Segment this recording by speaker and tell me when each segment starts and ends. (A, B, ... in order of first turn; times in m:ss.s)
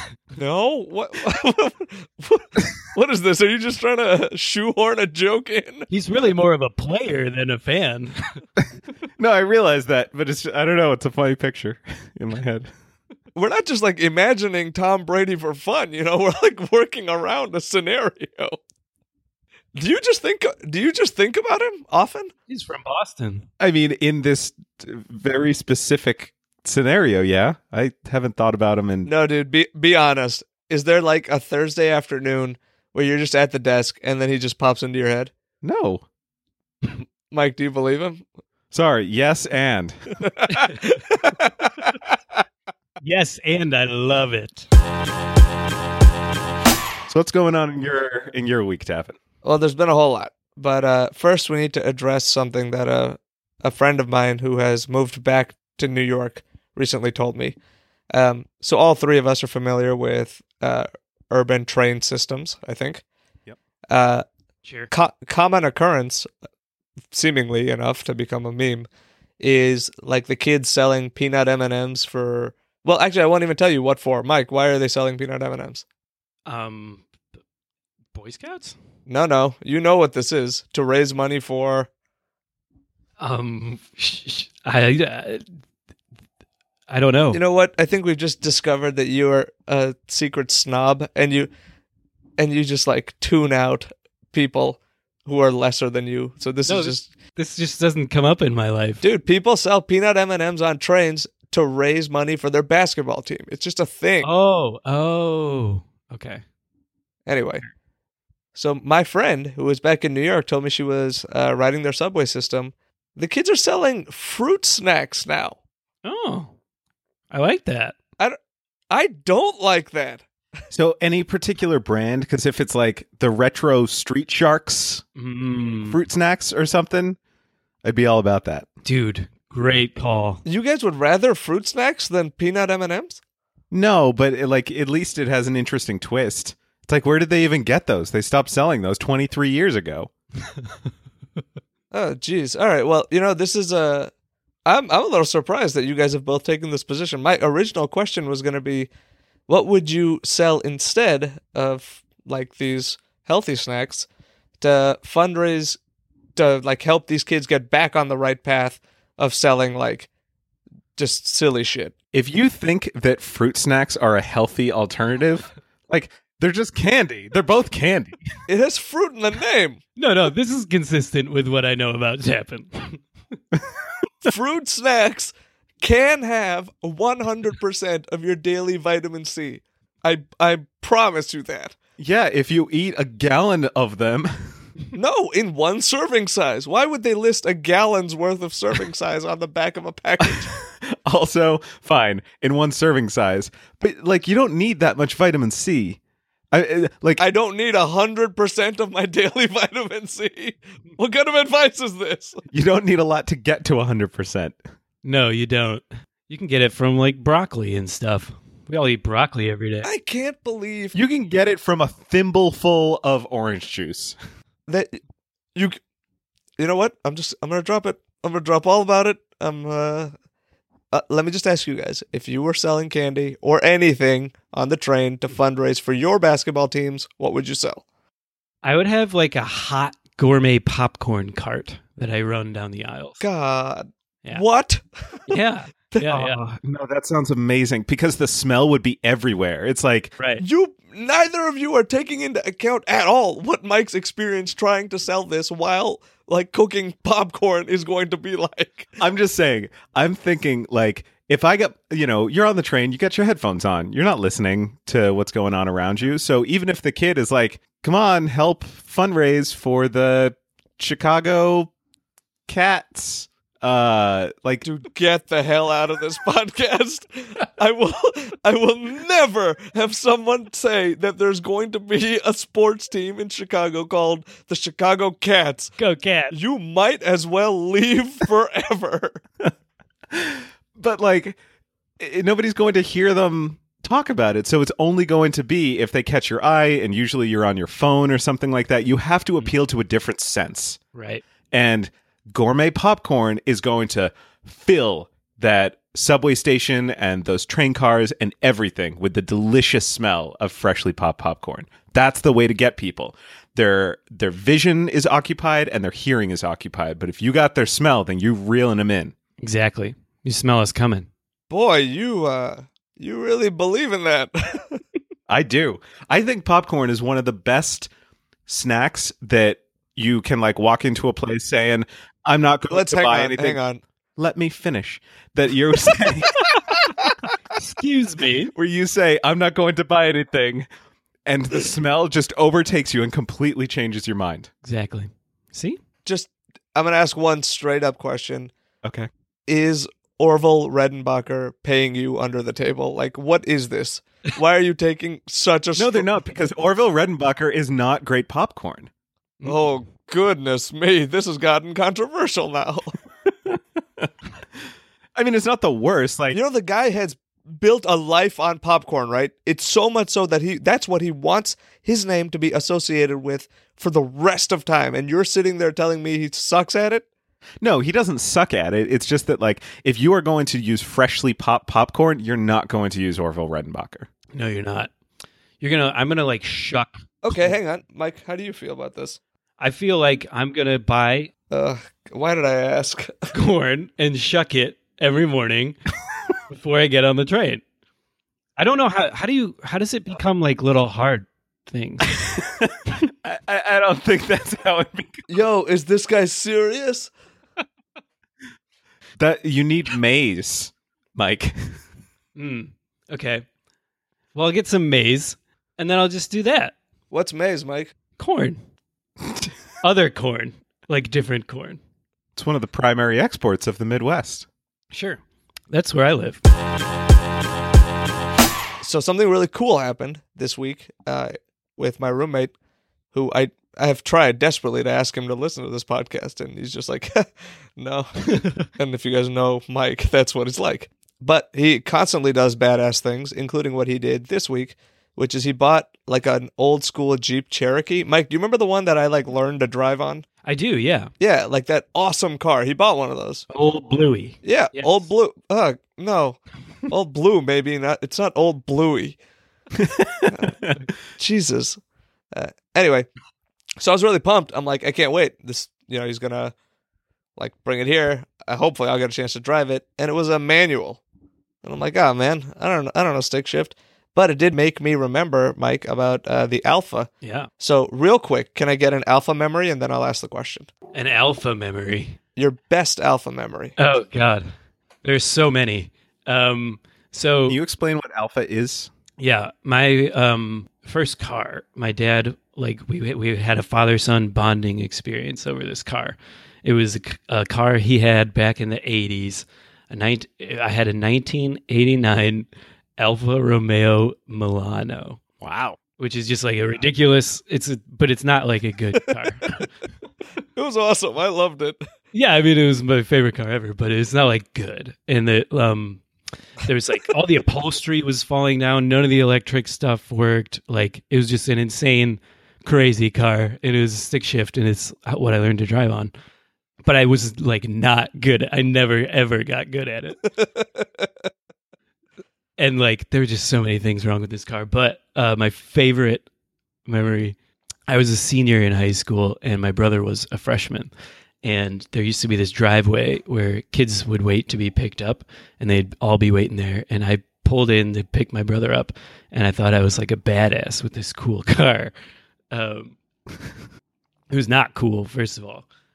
0:00.4-0:05.9 A
0:05.9-0:08.2 B
0:09.2-0:12.7 C
0:13.3-0:18.6 A
0:19.7-0:22.3 A
0:22.5-0:23.5 B
0:23.6-0:29.1 C
0:29.0-0:35.3 A
0:35.6-0:36.0 C
0:36.8-0:38.2 A
0:38.7-0:40.0 C
0:40.2-0:42.1 A
0:43.0-0:44.7 B
0:47.1-0:49.2 C
0:49.4-0:57.6 A
0:58.1-1:03.0 A
1:03.9-1:04.2 A
1:04.6-1:04.9 B
1:04.9-1:06.3 A
1:07.1-1:08.9 A
1:09.4-1:15.8 A
1:16.4-1:17.0 B
1:18.1-1:18.8 B
1:19.1-1:21.9 A
1:23.2-1:25.4 B
1:26.9-1:27.4 B
1:27.3-1:31.5 A
1:32.4-1:37.1 A
1:36.7-1:39.0 B
1:39.0-1:44.3 A
1:44.2-1:46.4 B
1:47.2-1:47.6 A
1:48.5-1:55.6 A
1:56.0-1:56.5 B
1:57.3-1:57.9 B
1:58.9-2:00.2 A
2:00.7-2:05.0 C
2:05.2-2:06.0 B
2:05.9-2:07.2 C
2:07.8-2:08.7 C
2:08.8-2:10.4 B
2:10.4-2:13.2 A
2:13.7-2:20.1 C
2:21.9-2:24.1 A
2:24.6-2:28.9 A
2:29.5-2:34.1 A
2:34.6-2:35.8 A
2:36.4-2:40.1 A
2:41.0-2:41.9 A
2:42.1-2:48.2 C
2:48.5-2:49.8 A
2:50.0-2:53.0 B
2:54.2-3:01.8 A
3:02.0-3:04.5 C
3:04.9-3:10.5 A
3:10.2-3:16.0 C
3:16.5-3:17.2 C
3:17.2-3:22.4 A
3:22.5-3:24.6 C
3:25.0-3:29.9 B
3:29.8-3:31.0 A
3:30.9-3:34.2 C
3:34.7-3:35.0 A
3:36.6-3:40.1 A
3:40.9-3:47.8 A
3:48.6-3:53.2 B
3:53.2-3:55.3 A
3:55.3-3:56.4 B
3:56.1-4:00.2 C
4:00.4-4:08.9 A
4:09.0-4:21.7 C
4:22.5-4:24.6 C
4:24.6-4:35.7 A
4:35.8-4:36.3 B
4:36.3-4:39.2 A
4:40.1-4:41.4 C
4:42.0-4:50.8 C
4:50.9-4:51.2 B
4:51.5-5:09.1 C
5:09.4-5:11.1 B
5:11.5-5:14.8 A
5:15.3-5:17.9 C
5:18.5-5:23.6 C
5:22.7-5:23.8 A
5:24.2-5:26.9 C
5:27.5-5:28.5 B
5:28.5-5:30.6 C
5:31.2-5:34.5 C
5:34.6-5:35.8 B
5:36.0-5:38.5 A
5:38.8-5:39.1 C
5:39.5-5:46.1 A
5:45.8-5:48.9 C
5:49.4-5:53.0 A
5:53.4-5:54.1 C
5:55.1-5:56.4 C
5:56.3-6:07.0 A
6:07.6-6:14.1 C
6:14.3-6:14.9 B
6:15.6-6:17.1 B
6:17.2-6:19.2 A
6:19.6-6:21.3 B
6:21.5-6:23.3 A
6:23.3-6:25.8 B
6:26.5-6:27.6 B
6:28.6-6:32.1 B
6:32.3-6:35.3 C
6:35.3-6:37.1 A
6:39.2-6:41.8 C
6:42.4-6:43.4 B
6:44.3-6:46.8 B
6:47.1-6:47.9 A
6:48.2-6:48.6 B
6:49.8-6:51.8 B
6:52.4-6:54.5 C
6:54.9-6:56.4 B
6:58.8-7:02.5 A
7:03.1-7:20.2 A
7:08.3-7:08.6 B
7:20.4-7:21.1 B
7:21.2-7:23.5 A
7:23.5-7:25.1 B
7:24.4-7:29.2 A
7:29.8-7:30.8 C
7:30.3-7:30.5 A
7:31.2-7:31.8 A
7:32.3-7:33.1 A
7:33.8-7:36.5 A
7:37.4-7:41.0 A
7:41.6-7:50.7 A
7:47.2-7:47.5 B
7:50.9-7:52.2 B
7:52.4-7:53.8 A
7:53.8-7:54.5 B
7:55.0-7:57.6 B
7:57.5-7:58.9 C
7:59.2-8:15.2 B
8:15.4-8:15.8 C
8:16.0-8:19.6 B
8:20.6-8:21.8 A
8:22.1-8:26.0 B
8:26.6-8:36.1 B
8:36.8-8:40.2 B
8:40.4-8:41.0 A
8:42.6-8:46.3 B
8:46.8-8:47.4 B
8:47.9-8:50.9 B
8:51.4-9:01.9 B
9:02.5-9:03.0 B
9:04.3-9:05.6 B